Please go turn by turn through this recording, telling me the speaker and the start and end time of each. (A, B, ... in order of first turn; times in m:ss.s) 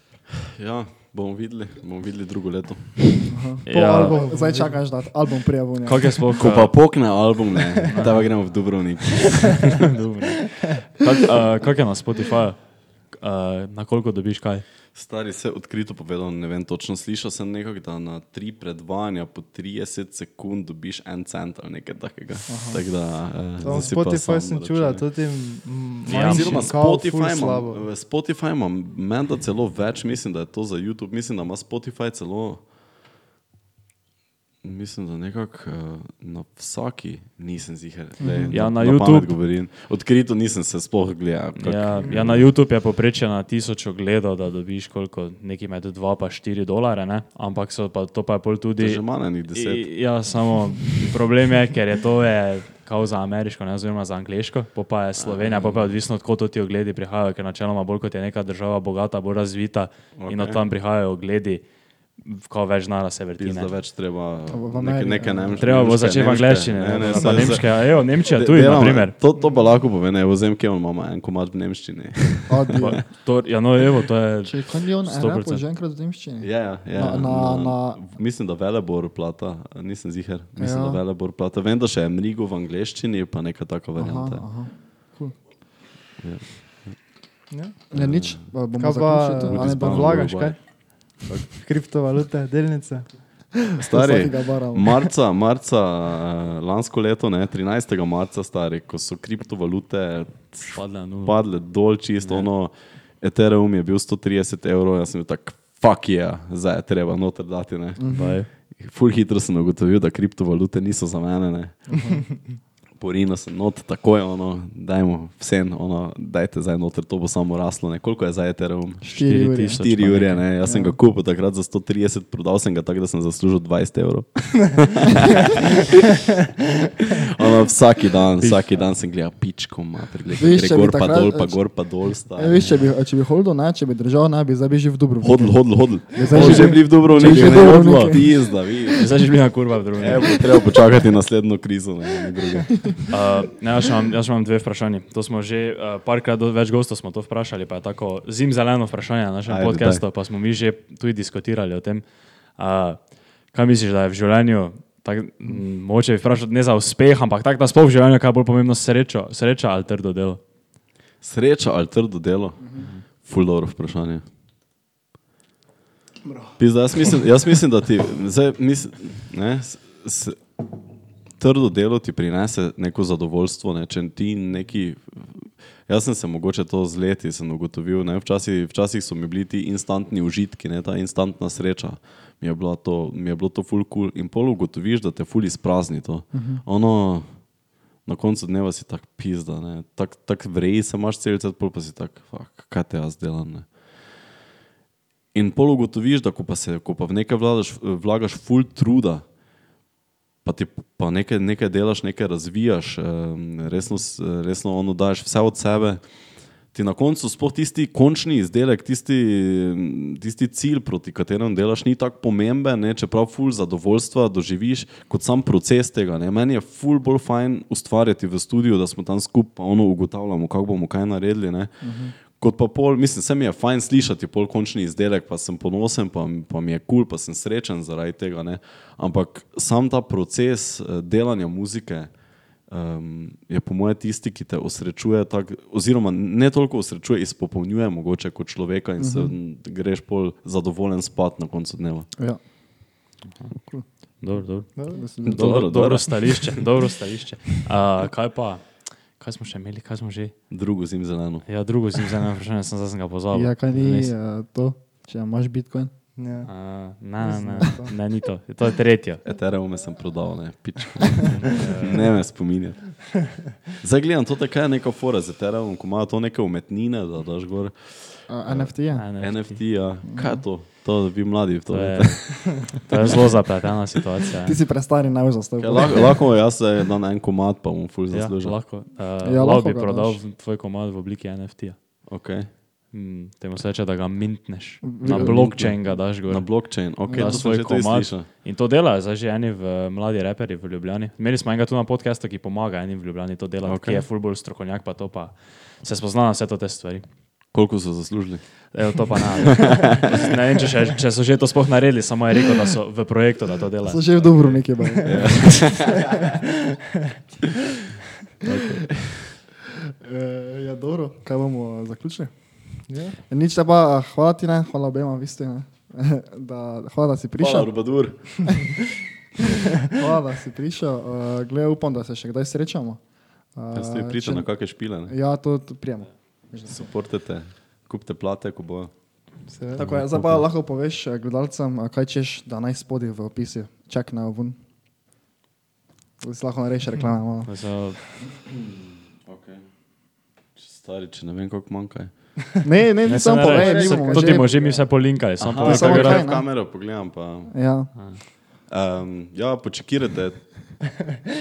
0:00.5-0:03.4 A
0:03.3-0:06.3 B
0:03.6-0:04.1 C
0:03.7-0:05.0 D
0:05.8-0:07.2 C
0:06.4-0:09.6 A
0:07.9-0:08.7 C
0:09.8-0:14.6 C
0:14.9-0:25.1 A
0:22.5-0:22.8 B
0:23.6-0:27.9 D
0:26.0-0:26.7 C
0:26.0-0:32.6 A
0:34.6-0:42.5 A
0:38.2-0:38.5 B
0:38.5-0:39.4 C
0:41.6-1:03.7 C
0:48.8-0:50.0 A
0:55.2-0:56.0 A
1:00.2-1:00.6 A
1:03.4-1:13.0 A
1:04.5-1:05.8 B
1:05.6-1:09.1 C
1:07.1-1:07.6 B
1:12.5-1:13.0 B
1:12.8-1:15.6 C
1:14.4-1:18.1 B
1:16.4-1:24.5 A
1:20.6-1:21.0 B
1:24.0-1:25.4 B
1:26.2-1:27.0 A
1:27.5-1:27.8 D
1:27.9-1:28.5 A
1:27.9-1:30.5 B
1:28.8-1:33.2 D
1:29.3-1:31.5 A
1:33.8-1:52.1 A
1:33.9-1:35.1 B
1:40.7-1:41.4 C
1:42.2-1:42.5 C
1:48.0-1:48.4 B
1:48.1-1:48.5 C
1:51.9-1:52.2 B
1:52.9-1:59.0 A
1:59.0-1:59.9 B
1:59.1-2:00.5 C
1:59.7-2:05.9 A
2:00.6-2:01.0 B
2:07.3-2:12.6 A
2:08.4-2:09.0 C
2:10.4-2:18.8 B
2:12.5-2:12.9 C
2:15.2-2:19.4 A
2:16.3-2:18.2 C
2:16.4-2:16.8 D
2:18.9-2:20.6 C
2:20.0-2:22.9 A
2:23.1-2:40.4 C
2:29.4-2:30.0 A
2:41.2-2:44.2 A
2:46.6-2:50.6 A
2:51.3-3:13.8 A
3:06.3-3:06.6 B
3:15.3-3:19.3 A
3:20.4-4:02.1 A
3:41.8-3:42.1 B
3:59.0-3:59.3 B
4:03.2-4:10.4 C
4:03.6-4:03.9 B
4:04.8-4:05.0 D
4:04.9-4:05.5 B
4:05.2-4:06.6 A
4:10.5-4:11.7 A
4:11.4-4:14.1 C
4:13.3-4:16.2 B
4:16.2-4:18.0 D
4:16.4-4:19.2 C
4:19.2-4:32.7 A
4:21.2-4:22.3 C
4:28.3-4:29.1 B
4:28.9-4:29.8 C
4:30.0-4:30.4 B
4:31.7-4:34.6 C
4:34.4-4:36.3 B
4:35.6-4:38.6 A
4:38.1-4:42.1 C
4:39.2-4:40.2 B
4:42.1-4:42.5 A
4:42.9-4:57.1 C
4:44.8-4:45.4 B
4:45.1-4:48.3 A
4:47.0-4:47.4 B
4:53.6-4:54.0 A
4:57.5-4:59.0 A
4:58.7-5:04.6 C
5:03.8-5:05.7 B
5:05.0-5:06.2 A
5:08.4-5:09.4 A
5:10.0-5:18.4 B
5:12.9-5:13.2 D
5:17.4-5:18.7 A
5:19.9-5:26.9 B
5:23.7-5:25.1 A
5:26.6-5:28.9 A
5:29.5-5:29.9 D
5:29.8-5:30.4 C
5:29.8-5:34.6 B
5:29.9-5:30.3 A
5:36.2-5:37.8 B
5:37.4-5:38.0 C
5:39.2-5:42.3 A
5:42.6-5:44.9 B
5:43.0-5:46.3 C
5:43.5-5:44.8 D
5:45.4-5:47.9 A
5:45.4-5:46.6 B
5:47.5-5:47.9 B
5:47.9-5:48.2 C
5:48.6-5:50.9 A